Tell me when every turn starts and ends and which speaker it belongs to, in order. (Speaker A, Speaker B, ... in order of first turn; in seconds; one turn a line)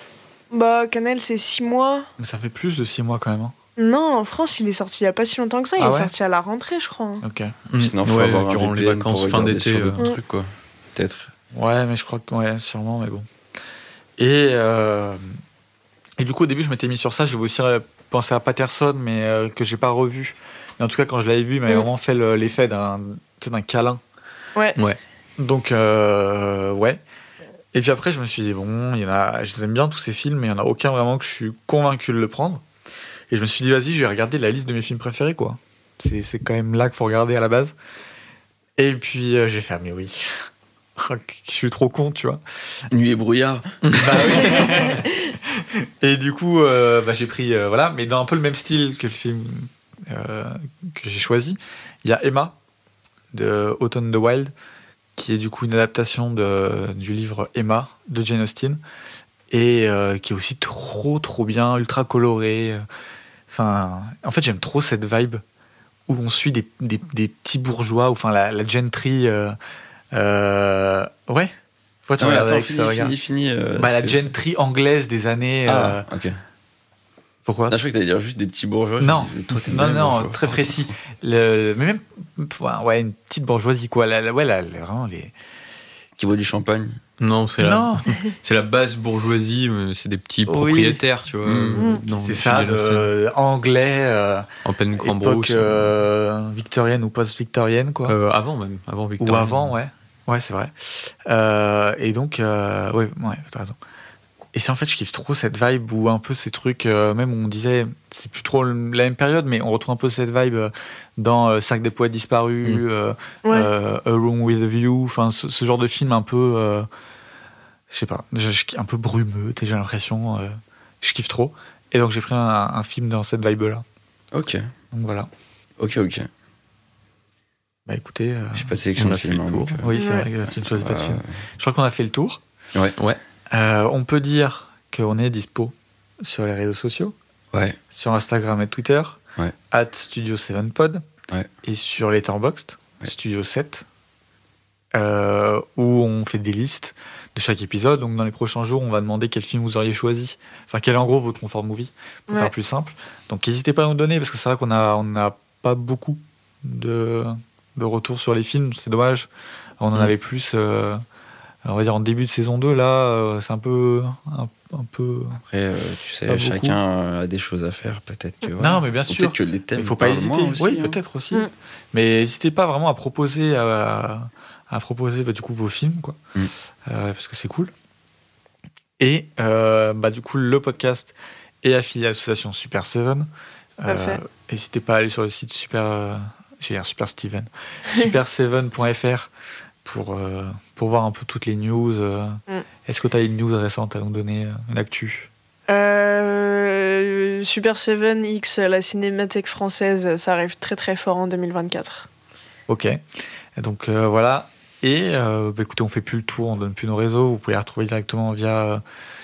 Speaker A: 0.5-2.1
Speaker B: 2.2-3.5
Speaker A: 3.8-7.2
Speaker B: 5.8-6.1
Speaker B: 7.2-7.5
Speaker C: 7.7-10.0
Speaker D: 7.8-11.3
Speaker B: 11.5-13.2
Speaker B: 14.2-15.3
Speaker B: 16.2-24.0
Speaker B: 25.4-27.0
Speaker B: 27.7-32.6
Speaker B: 33.3-37.7
Speaker B: 38.8-40.3
Speaker B: 41.0-42.4
Speaker D: 42.9-44.6
Speaker C: 43.8-44.3
Speaker B: 43.9-52.6
Speaker A: 44.5-45.0
Speaker B: 53.3-54.5
Speaker B: 55.1-58.8
Speaker B: 59.5-62.8
Speaker B: 63.5-65.4
Speaker B: 66.1-69.6
Speaker B: 70.1-71.5
Speaker B: 72.1-73.1
Speaker D: 72.2-74.3
Speaker B: 73.8-76.0
Speaker D: 75.7-76.4
Speaker B: 77.5-77.8
Speaker D: 77.7-80.9
Speaker B: 79.0-85.3
Speaker D: 86.2-87.0
Speaker C: 87.2-93.1
Speaker B: 87.6-88.0
Speaker B: 90.5-91.0
Speaker D: 91.4-91.9
Speaker B: 92.2-94.5
Speaker C: 94.6-95.9
Speaker B: 95.0-98.1
Speaker C: 98.1-99.7
Speaker B: 99.2-103.8
Speaker B: 104.5-116.9
Speaker A: 113.4-113.7
Speaker B: 117.9-123.8
Speaker D: 124.3-124.7
Speaker B: 124.9-125.3
Speaker D: 125.8-126.3
Speaker B: 127.9-128.8
Speaker D: 128.5-129.9
Speaker C: 128.9-129.8
Speaker B: 129.8-132.4
Speaker A: 129.9-130.3
Speaker D: 130.4-131.4
Speaker B: 133.5-137.1
Speaker D: 137.5-137.8
Speaker B: 137.9-139.2
Speaker B: 139.7-141.0
Speaker B: 141.6-143.8
Speaker B: 144.9-159.3
Speaker B: 159.8-161.0
Speaker B: 161.6-165.4
Speaker D: 165.5-171.0
Speaker B: 166.3-166.8
Speaker B: 168.6-176.2
Speaker B: 176.8-177.7
Speaker B: 179.0-183.3
Speaker B: 183.8-189.3
Speaker A: 183.9-184.2
Speaker B: 189.8-195.3
Speaker A: 195.7-202.1
Speaker B: 202.7-203.0
Speaker B: 203.6-208.8